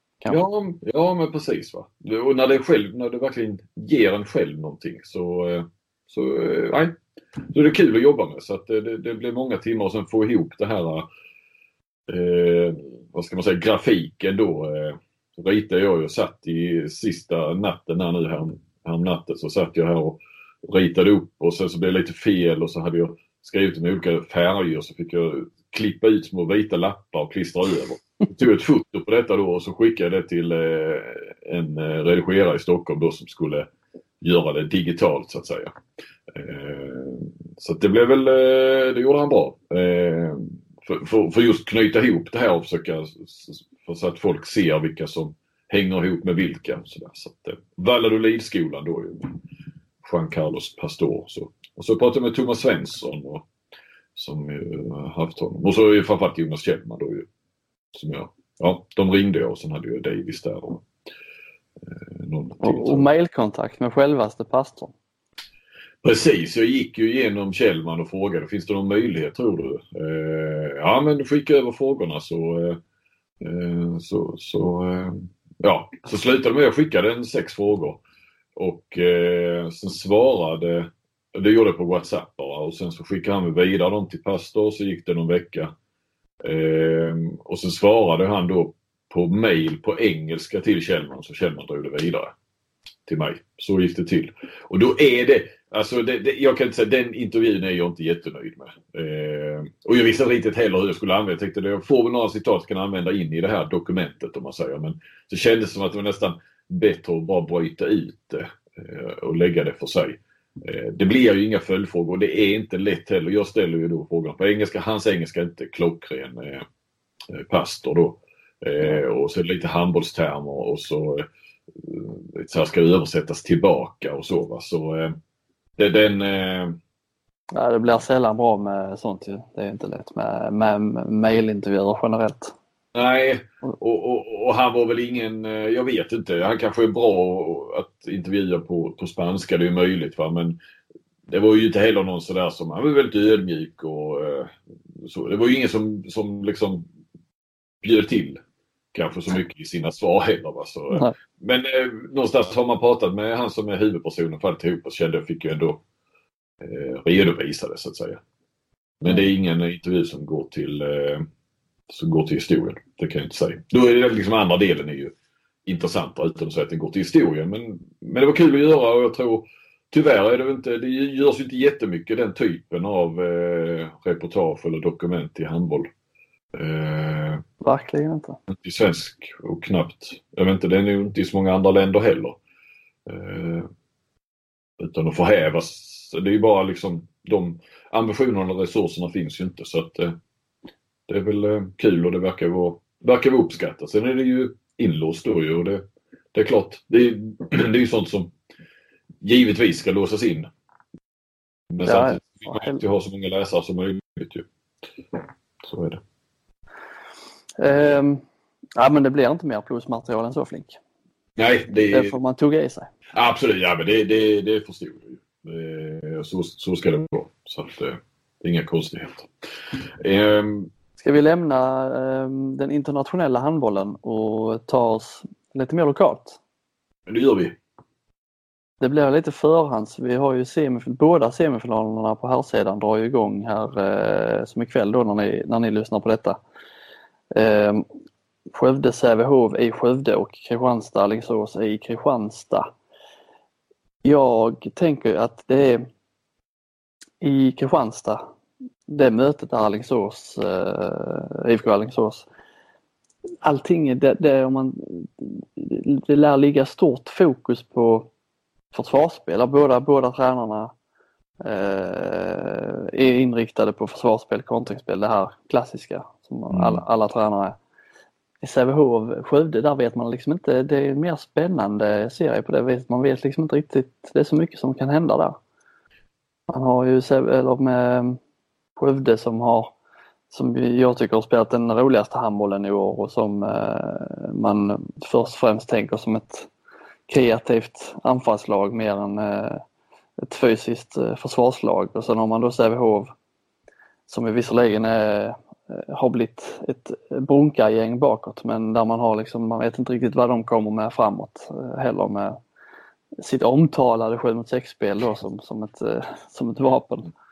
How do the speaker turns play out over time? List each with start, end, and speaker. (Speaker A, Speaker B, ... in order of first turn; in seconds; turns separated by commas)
Speaker A: 0.3-11.1, Speaker A: 12.1-33.7, Speaker A: 34.2-35.7, Speaker A: 36.3-49.4, Speaker A: 50.0-53.5, Speaker A: 54.2-57.3, Speaker A: 57.9-60.9, Speaker A: 61.8-63.1, Speaker B: 62.6-64.9, Speaker A: 66.0-72.8, Speaker A: 73.4-78.0, Speaker A: 78.6-85.7, Speaker A: 86.4-92.3, Speaker A: 93.1-116.7, Speaker A: 117.3-125.2, Speaker A: 125.8-126.8, Speaker B: 127.5-132.5, Speaker A: 132.9-140.6, Speaker A: 141.3-146.9, Speaker A: 147.8-148.4, Speaker A: 148.9-155.8, Speaker A: 156.6-158.2, Speaker A: 159.0-161.3, Speaker A: 161.9-165.1, Speaker A: 165.7-175.9, Speaker A: 176.6-177.4, Speaker B: 177.6-178.4, Speaker A: 178.5-182.4, Speaker A: 183.1-183.7, Speaker A: 184.8-190.2, Speaker A: 191.1-198.3, Speaker A: 199.2-200.5, Speaker A: 201.7-204.5, Speaker B: 201.9-202.8, Speaker A: 205.6-206.0, Speaker B: 207.6-208.2, Speaker B: 208.8-210.8, Speaker A: 211.4-212.2, Speaker B: 211.9-212.9, Speaker A: 213.1-219.3, Speaker A: 220.0-220.7, Speaker B: 221.0-226.4, Speaker A: 227.1-227.6, Speaker B: 228.8-236.4, Speaker B: 237.3-237.8, Speaker B: 238.5-242.7, Speaker B: 244.0-245.8, Speaker B: 247.2-248.2, Speaker B: 248.9-252.3, Speaker B: 253.4-258.1, Speaker B: 258.7-260.7, Speaker B: 261.4-267.6, Speaker A: 266.5-266.8, Speaker B: 268.4-275.4, Speaker B: 276.5-278.2, Speaker B: 278.8-279.7, Speaker B: 280.3-286.5, Speaker B: 287.1-289.6, Speaker B: 290.2-293.1, Speaker B: 294.1-302.4, Speaker B: 303.2-307.1